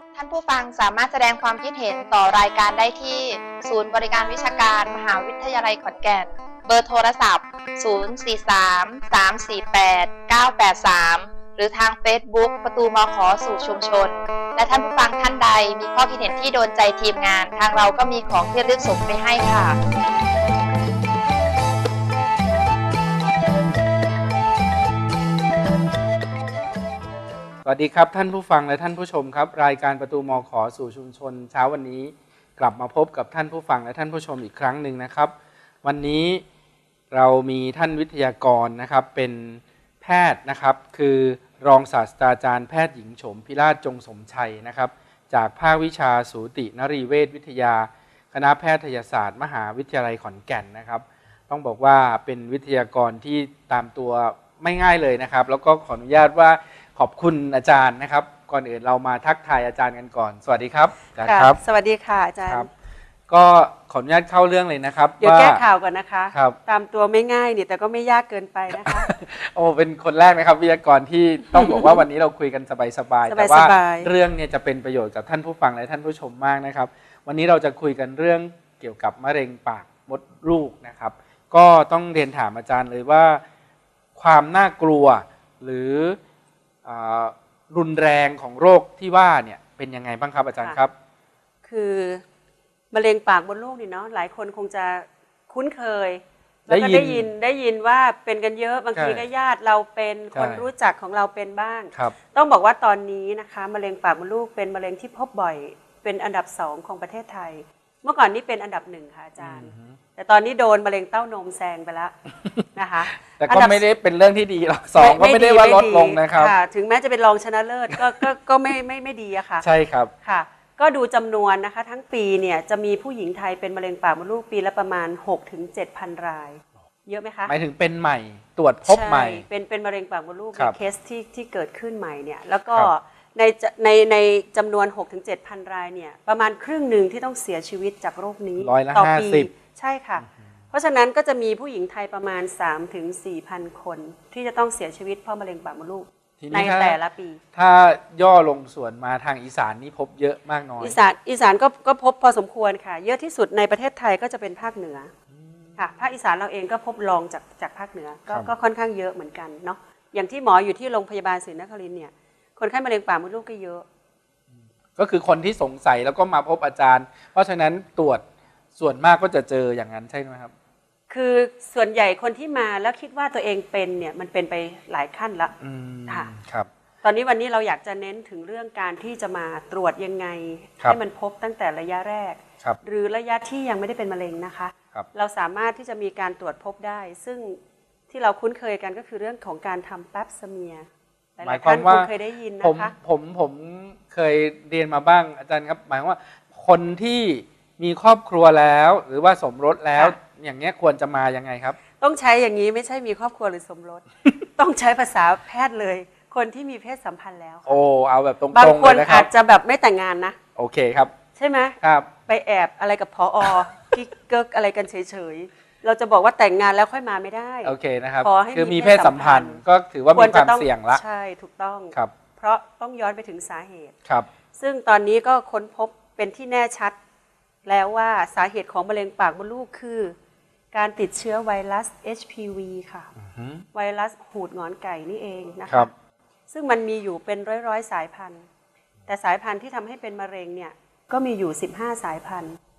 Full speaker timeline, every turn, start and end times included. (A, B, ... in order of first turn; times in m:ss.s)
0:00.1-0:19.8 A
0:27.6-0:36.4 B
0:37.1-1:01.6 B
1:01.2-1:02.7 C
1:03.3-1:05.6 B
1:05.2-1:09.1 C
1:06.3-1:06.6 B
1:08.8-1:23.4 B
1:11.5-1:12.0 C
1:13.2-1:14.1 C
1:24.2-1:26.2 B
1:26.8-1:30.9 B
1:31.6-1:32.2 C
1:32.9-1:52.1 C
1:36.7-1:37.3 B
1:39.0-1:39.2 B
1:40.3-1:40.6 B
1:49.4-1:50.0 B
1:52.7-1:53.8 C
1:53.3-1:56.5 B
1:55.0-1:59.6 C
1:59.6-2:00.1 B
2:00.2-2:07.5 C
2:07.5-2:09.4 B
2:08.8-2:27.4 C
2:18.6-2:19.5 B
2:26.4-2:27.0 B
2:27.5-2:31.0 B
2:30.8-2:35.1 C
2:35.3-2:35.9 B
2:35.8-2:43.8 C
2:45.0-2:48.2 B
2:48.8-2:50.5 B
2:51.1-2:55.5 C
2:55.6-2:56.7 B
2:57.0-3:07.6 C
3:08.1-3:12.9 C
3:11.4-3:12.1 B
3:12.6-3:21.8 B
3:22.0-3:27.8 C
3:27.7-3:29.3 B
3:28.5-3:30.4 C
3:30.6-3:31.1 B
3:31.3-3:39.6 C
3:31.8-3:32.1 B
3:37.6-3:41.0 B
3:40.1-3:43.9 C
3:44.6-3:47.0 C
3:47.6-3:50.1 C
3:50.7-3:53.1 C
3:53.2-3:53.6 B
3:53.7-3:55.9 C
3:56.5-3:58.4 C
3:59.1-4:02.6 C